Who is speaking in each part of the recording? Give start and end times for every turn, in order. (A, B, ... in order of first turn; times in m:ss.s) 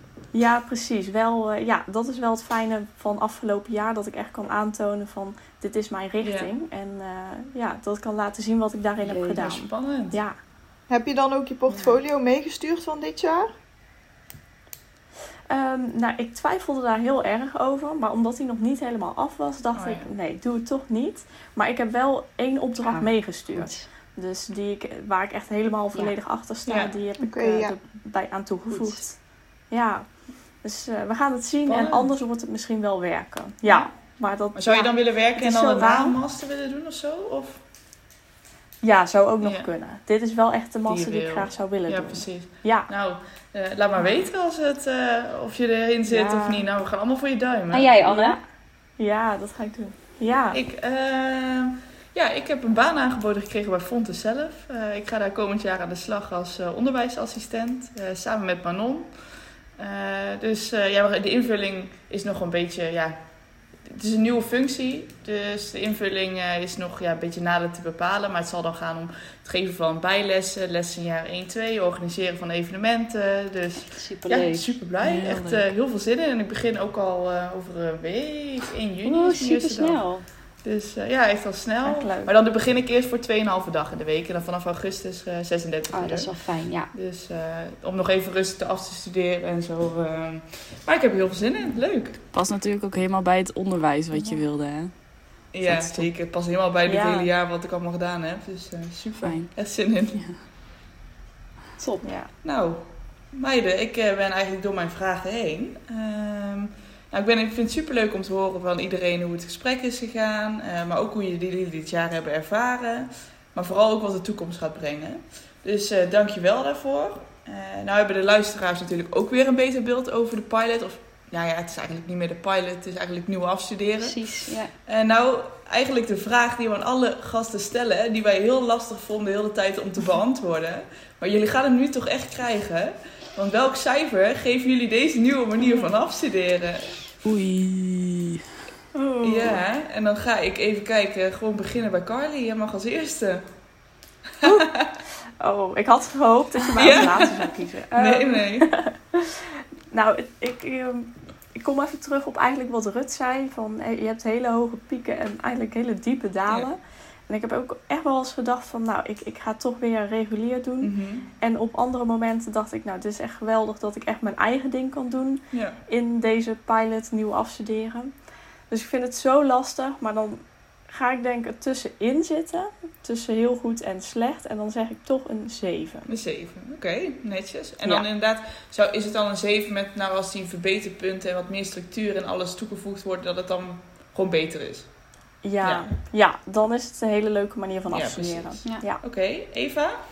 0:00.3-0:10.4 A
0:06.2-0:06.5 B
0:09.0-0:09.4 C
0:09.4-0:10.2 B
0:10.9-0:13.5 D
0:15.5-0:36.2 A
0:19.7-0:20.1 B
0:22.8-0:23.9 C
0:26.6-0:27.0 B
0:27.3-0:27.8 D
0:28.7-0:29.1 C
0:31.7-0:32.1 B
0:33.7-0:37.6 B
0:38.8-0:42.9 A
0:39.4-0:39.7 B
0:40.9-0:47.9 B
0:46.1-0:46.6 A
0:47.7-0:48.4 C
0:48.0-0:50.6 A
0:50.5-1:32.2 B
1:13.8-1:14.7 C
1:15.0-1:15.7 E
1:19.0-1:20.3 C
1:21.8-1:22.3 A
1:25.9-1:26.9 C
1:32.3-1:36.1 E
1:35.5-1:40.3 B
1:36.9-1:37.3 A
1:39.2-1:40.4 E
1:41.8-1:42.1 C
1:42.0-1:42.3 A
1:42.4-2:17.1 B
2:04.0-2:04.7 C
2:17.2-2:18.4 E
2:18.9-2:19.6 A
2:19.2-2:23.5 B
2:24.4-2:24.9 B
2:24.4-2:24.8 A
2:25.4-2:56.1 A
2:26.8-2:27.4 B
2:27.9-2:28.7 B
2:40.8-2:41.3 B
2:45.5-2:45.8 B
2:56.1-3:05.0 B
3:05.4-3:09.0 A
3:05.6-3:05.9 B
3:07.9-3:10.0 B